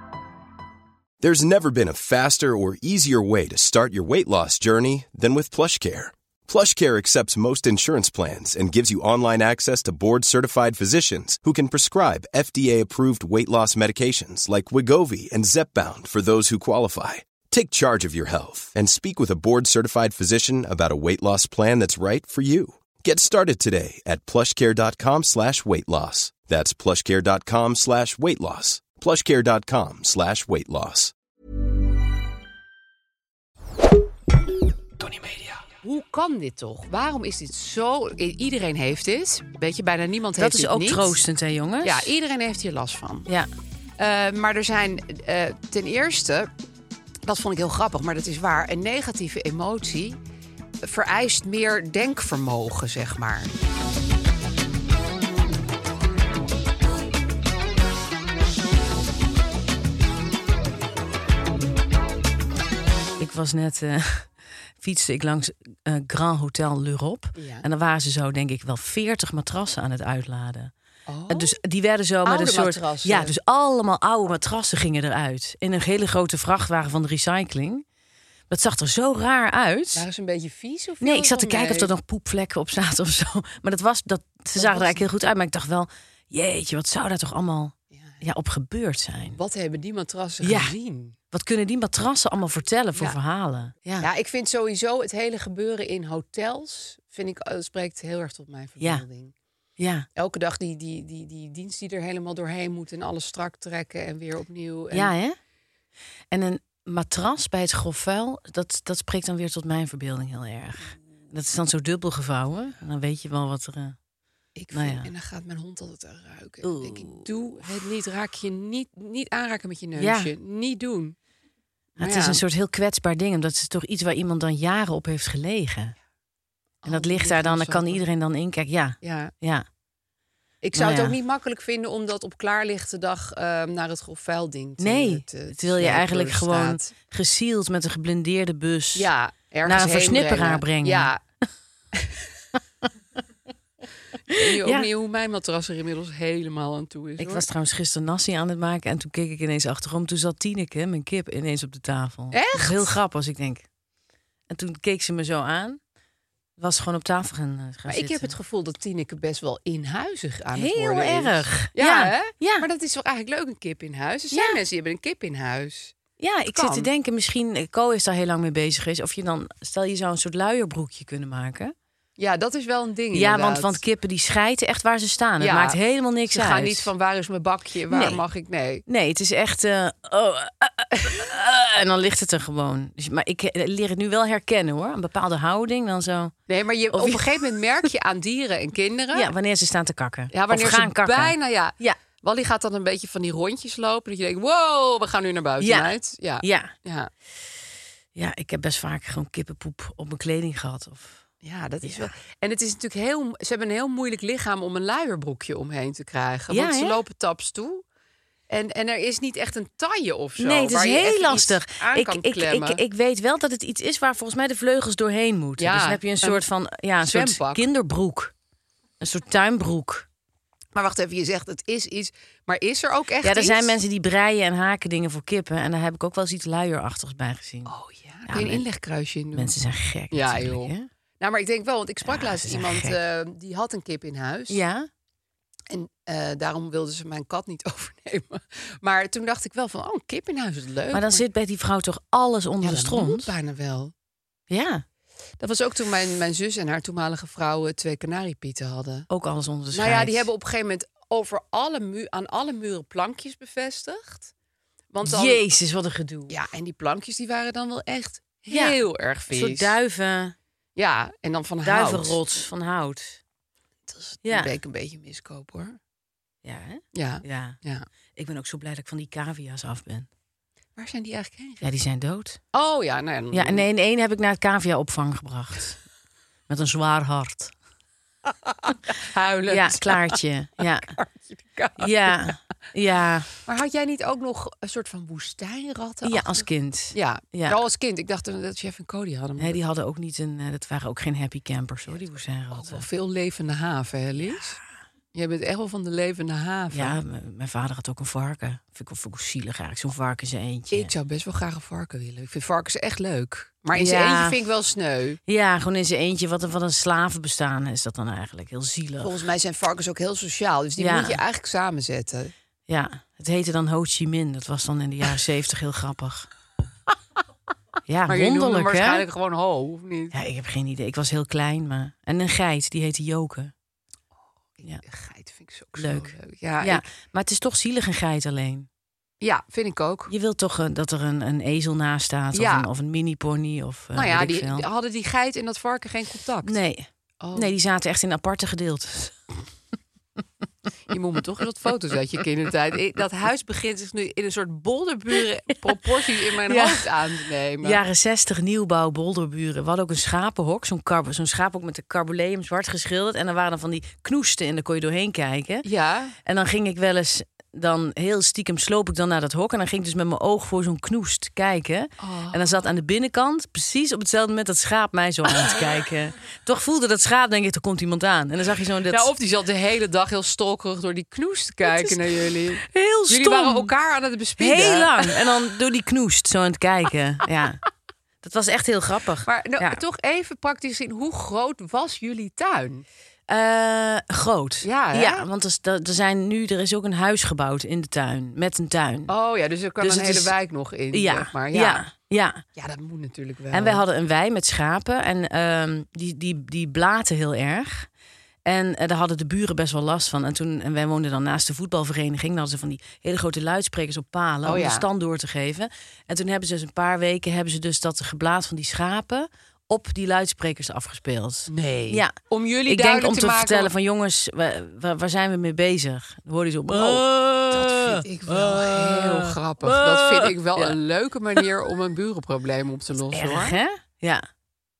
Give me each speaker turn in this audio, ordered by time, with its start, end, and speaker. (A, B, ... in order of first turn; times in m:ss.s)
0:01.2-0:31.1 A
0:35.8-0:41.2 B
0:40.4-0:42.1 C
0:41.8-0:43.3 B
0:44.0-0:46.5 B
0:47.2-0:50.2 B
0:50.8-0:53.5 B
1:03.2-1:10.7 C
1:07.3-1:07.6 B
1:11.1-1:11.6 B
1:11.3-1:17.8 C
1:12.2-1:13.3 B
1:18.5-1:20.0 C
1:19.9-1:21.9 B
1:21.0-1:29.4 C
1:24.6-1:25.0 B
1:27.9-1:28.2 B
1:29.4-1:31.2 B
1:30.4-1:30.7 C
1:31.3-1:34.1 C
1:34.0-1:39.3 B
1:39.8-1:40.0 C
1:40.2-1:45.1 B
1:44.9-1:45.4 C
1:46.3-1:54.0 C
1:54.6-2:01.2 B
1:54.7-1:55.1 C
1:56.6-1:57.3 C
2:00.0-2:00.3 C
2:02.0-2:02.4 B
2:02.0-2:05.9 C
2:06.8-2:08.0 B
2:06.8-2:09.6 C
2:09.0-2:09.3 B
2:10.6-2:16.9 B
2:10.7-2:11.2 C
2:14.8-2:19.1 C
2:19.0-2:21.2 B
2:19.6-2:21.1 C
2:24.3-2:24.9 C
2:24.3-2:27.4 B
2:27.2-2:33.6 C
2:32.3-2:32.9 B
2:34.5-2:35.8 C
2:36.6-2:38.3 C
2:37.9-2:45.9 B
2:40.5-2:42.6 C
2:44.3-2:44.6 C
2:46.2-2:51.7 C
2:46.5-2:46.9 B
2:52.2-2:53.8 B
2:53.1-2:56.9 C
2:55.4-2:55.8 B
2:56.3-2:58.8 B
2:57.9-2:58.2 C
2:58.9-3:06.3 C
3:06.5-3:09.3 B
3:06.9-3:07.5 C
3:09.1-3:12.0 C
3:10.3-3:17.1 B
3:15.6-3:16.7 C
3:18.1-3:21.2 C
3:21.4-3:27.8 B
3:21.8-3:22.1 C
3:26.5-3:27.0 C
3:28.5-3:32.8 B
3:30.4-3:38.3 C
3:35.6-3:36.4 B
3:37.0-3:37.6 B
3:39.0-3:40.1 C
3:40.7-3:43.8 B
3:43.2-3:47.7 C
3:47.6-3:49.5 B
3:48.2-3:48.6 C
3:49.3-3:50.9 C
3:50.1-3:54.6 B
3:52.0-3:53.0 C
3:54.5-3:54.9 C
3:55.7-4:01.2 B
4:00.9-4:03.3 C
4:02.6-4:03.9 B
4:04.5-4:04.8 C
4:05.4-4:09.1 B
4:09.1-4:10.3 C
4:09.7-4:14.3 B
4:14.9-4:15.4 B
4:15.0-4:16.3 C
4:16.3-4:19.8 B
4:18.5-4:18.8 C
4:19.3-4:20.3 C
4:20.8-4:22.4 B
4:21.6-4:23.2 C
4:23.9-4:25.8 B
4:24.2-4:24.5 C
4:26.4-4:27.6 C
4:26.9-4:27.8 B
4:28.2-4:30.1 C
4:30.8-4:31.7 B
4:31.6-4:32.4 C
4:32.5-4:33.6 B
4:33.3-4:35.8 C
4:36.5-4:37.5 C
4:38.5-4:42.3 B
4:39.5-4:40.9 C
4:41.8-4:43.3 C
4:43.4-4:49.6 B
4:46.0-4:47.6 C
4:49.4-4:52.8 C
4:52.5-4:54.6 B
4:55.1-4:57.0 B
4:56.7-5:00.9 C
5:00.7-5:05.2 B
5:03.7-5:04.4 C
5:05.3-5:09.1 C
5:09.0-5:12.3 B
5:10.8-5:11.2 C
5:12.7-5:16.3 C
5:17.9-5:19.0 C
5:18.1-5:20.1 B
5:20.1-5:23.5 C
5:24.6-5:26.8 B
5:25.8-5:28.7 C
5:29.2-5:30.1 B
5:30.1-5:34.7 C
5:32.3-5:32.7 B
5:33.9-5:36.6 B
5:36.4-5:39.2 C
5:37.2-5:37.5 B
5:40.9-5:47.8 B
5:46.5-5:46.9 C
5:47.6-5:55.7 C
5:55.6-5:56.2 B
5:56.2-6:09.1 C
6:02.0-6:02.5 B
6:08.9-6:15.3 B
6:11.6-6:13.7 C
6:14.4-6:17.6 C
6:18.2-6:19.8 C
6:19.2-6:22.8 B
6:23.3-6:29.1 C
6:24.6-6:25.3 B
6:29.1-6:31.8 B
6:29.8-6:30.3 C
6:30.9-6:32.4 C
6:32.6-6:33.8 B
6:33.5-6:37.9 C
6:38.4-6:52.1 C
6:44.4-6:44.8 B
6:51.5-6:53.7 B
6:52.6-7:00.8 C
6:56.7-7:03.5 B
7:03.1-7:04.2 C